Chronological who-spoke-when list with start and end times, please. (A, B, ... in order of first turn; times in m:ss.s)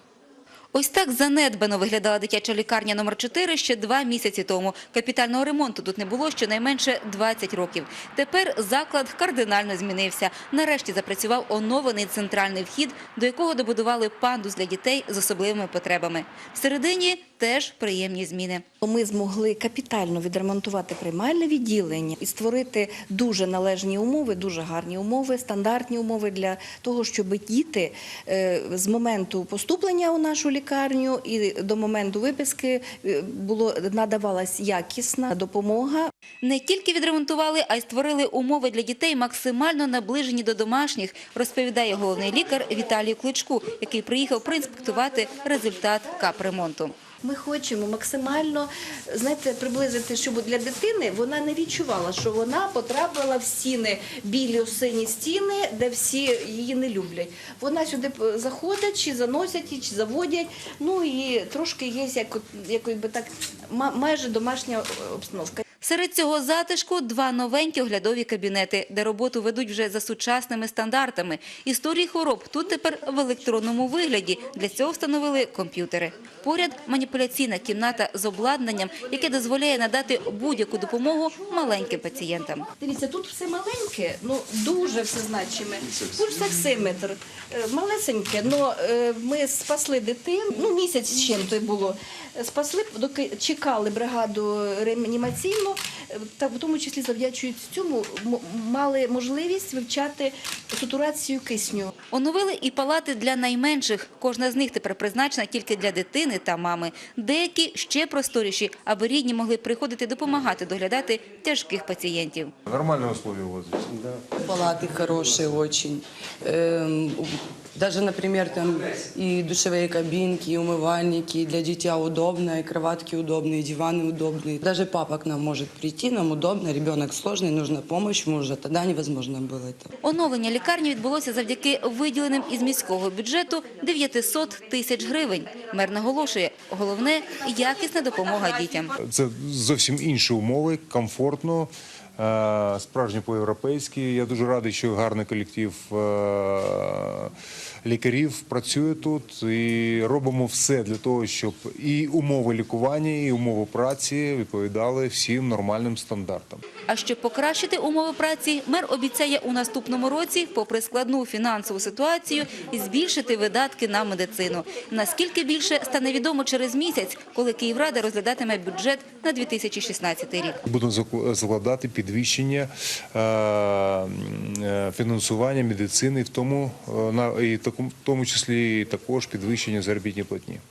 0:00.7-0:18.6 A
0:18.8-0:36.1 B
0:36.4-0:46.9 A
0:47.2-1:05.6 B
1:05.8-1:22.7 A
1:22.7-1:41.9 B
1:42.1-1:52.5 A
1:52.7-1:54.2 C
1:54.4-2:09.9 D
2:10.0-2:18.9 A
2:19.0-2:36.6 C
2:36.9-2:50.6 A
2:50.6-3:00.6 C